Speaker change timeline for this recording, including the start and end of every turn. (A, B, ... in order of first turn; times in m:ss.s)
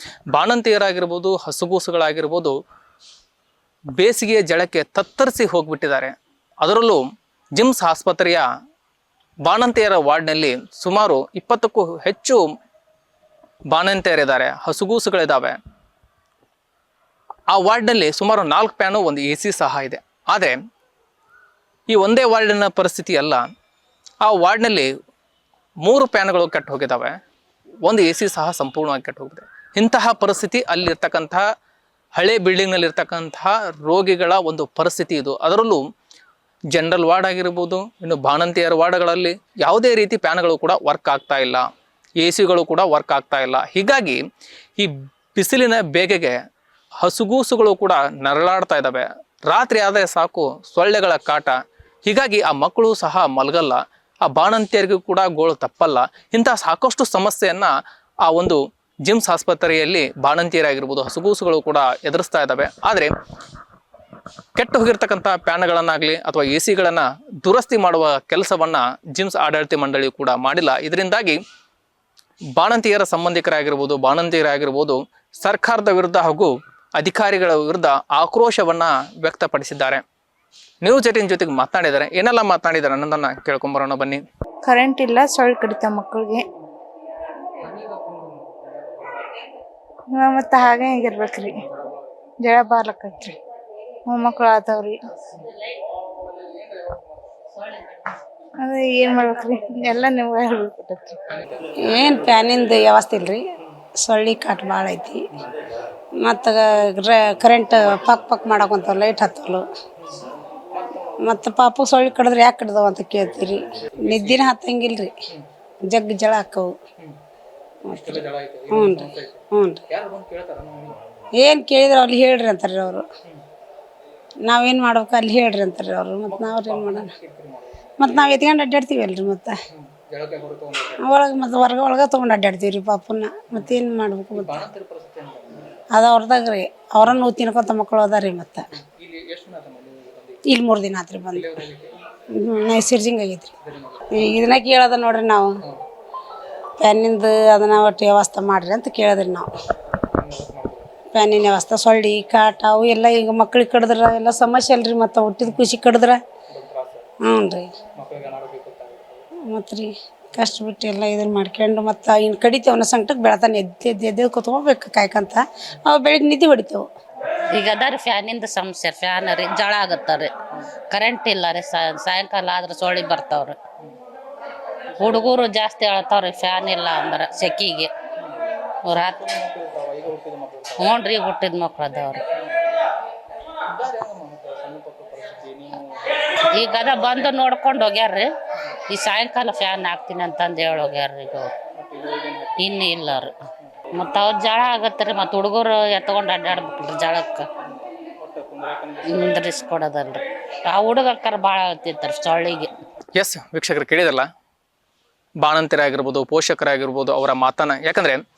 0:00.3-0:02.6 A
0:04.0-0:07.0 A
0:07.6-0:08.4 A
0:09.4-0:12.5 A
0:13.7-0:15.6 A
0:17.5-0:20.6 A
0:21.9-0:23.4 A
0:24.2-0:24.9 A
0:25.8-0:27.2 A
0:27.8-0:31.4 A
0:32.2-0:35.8 A
0:36.7-0:41.6 A
0:42.2-0:44.2 A
0:44.8-0:46.4 A
0:47.0-0:57.7 A
0:58.2-1:03.1 A
1:04.5-1:11.4 A
1:12.5-1:20.0 A
1:20.8-1:24.2 A
1:24.6-1:26.4 B
1:27.6-1:28.6 A
1:30.1-1:31.6 B
1:31.6-1:32.0 A
1:32.4-1:33.4 B
1:34.0-1:35.0 B
1:38.6-1:41.2 B
1:41.4-1:41.7 A
1:41.8-1:43.4 C
1:44.0-1:45.3 C
1:46.2-1:49.6 C
1:51.2-1:55.1 C
1:54.0-1:54.4 A
1:55.9-1:56.7 C
1:57.9-1:59.8 C
1:57.9-2:01.0 A
2:01.4-2:03.1 C
2:04.4-2:07.1 C
2:06.3-2:08.3 A
2:08.0-2:09.5 C
2:09.7-2:11.2 A
2:11.0-2:14.6 C
2:13.5-2:13.8 A
2:14.3-2:15.8 A
2:15.9-2:18.6 C
2:18.7-2:20.5 A
2:20.4-2:21.5 C
2:21.3-2:22.0 A
2:22.4-2:23.5 C
2:23.6-2:24.2 A
2:24.1-2:25.6 C
2:26.8-2:29.5 C
2:30.1-2:31.0 A
2:31.1-2:36.2 C
2:35.4-2:35.7 A
2:36.5-2:37.1 A
2:37.2-2:37.7 C
2:38.0-2:39.2 A
2:39.5-2:46.8 C
2:47.5-2:50.3 D
2:50.9-2:53.6 D
2:54.9-2:55.4 A
2:55.0-2:57.9 D
2:58.2-2:58.4 A
2:58.8-2:59.2 D
2:59.2-3:01.0 A
3:00.8-3:02.2 D
3:03.6-3:07.4 A
3:06.4-3:08.3 D
3:08.9-3:11.5 D
3:11.7-3:12.9 A
3:12.6-3:13.3 D
3:13.6-3:13.9 A
3:13.9-3:17.4 D
3:18.2-3:19.4 A
3:19.1-3:22.7 D
3:23.2-3:24.3 A
3:25.4-3:28.2 A